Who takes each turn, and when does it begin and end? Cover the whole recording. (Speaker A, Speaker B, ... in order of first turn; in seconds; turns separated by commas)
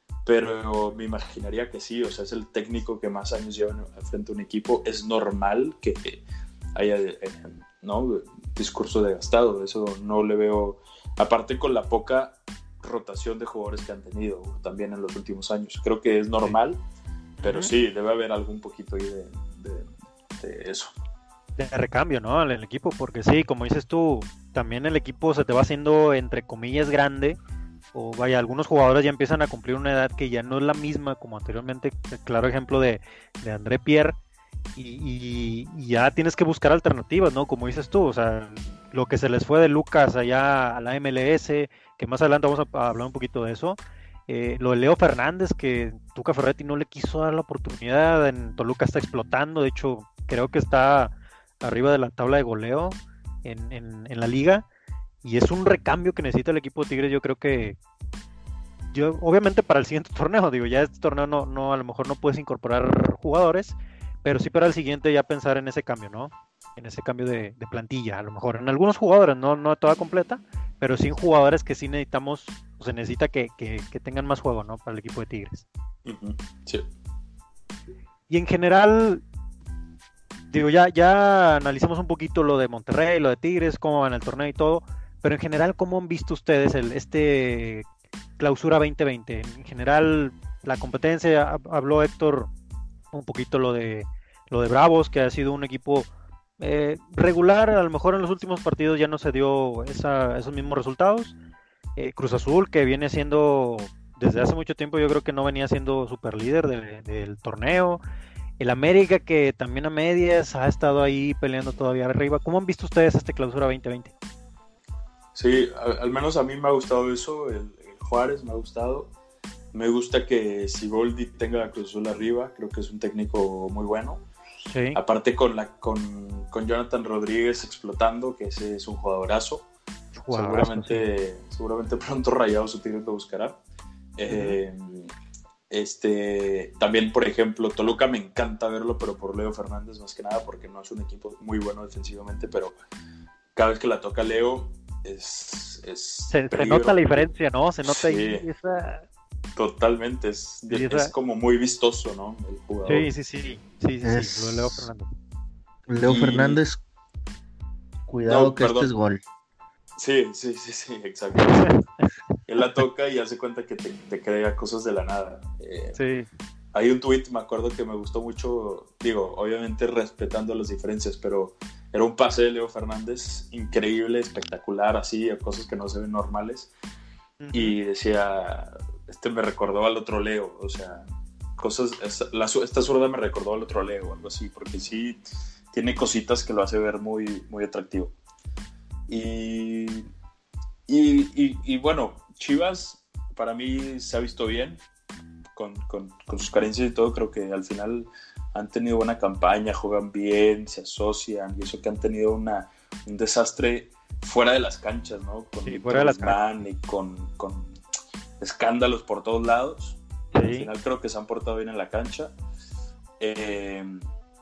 Speaker A: 0.2-6.2, Speaker A: 6.8-16.8, Speaker B: 17.4-17.7, Speaker A: 17.4-20.9, Speaker B: 21.6-27.4, Speaker B: 27.9-34.2, Speaker B: 34.8-54.7, Speaker B: 55.2-57.8, Speaker B: 58.9-75.7, Speaker A: 76.1-76.8, Speaker B: 78.3-79.2, Speaker B: 80.5-87.9, Speaker B: 88.4-92.5, Speaker B: 93.1-96.1, Speaker B: 96.6-101.3, Speaker B: 102.0-108.0, Speaker B: 108.6-114.1, Speaker A: 115.3-119.1, Speaker A: 119.7-124.2, Speaker B: 124.7-125.0, Speaker A: 124.9-129.7, Speaker B: 130.2-131.0, Speaker A: 130.3-133.6, Speaker A: 134.2-135.1, Speaker B: 134.3-134.6, Speaker A: 135.7-142.8, Speaker A: 143.6-147.3, Speaker B: 146.3-149.1, Speaker A: 147.8-148.4, Speaker A: 149.6-153.1, Speaker B: 150.7-151.1, Speaker B: 152.9-155.1, Speaker C: 154.0-154.9, Speaker C: 155.9-156.8, Speaker A: 156.0-156.6, Speaker C: 158.1-159.2, Speaker A: 158.3-158.9, Speaker A: 160.0-161.8, Speaker B: 161.4-162.1, Speaker A: 162.5-166.0, Speaker B: 166.0-166.3, Speaker A: 166.7-176.7, Speaker B: 177.4-177.8, Speaker A: 177.5-181.1, Speaker A: 181.6-188.1, Speaker A: 189.1-190.1, Speaker A: 190.9-194.8, Speaker A: 195.6-207.7, Speaker B: 205.7-206.4, Speaker A: 208.4-212.3, Speaker B: 210.3-210.7, Speaker A: 213.2-214.0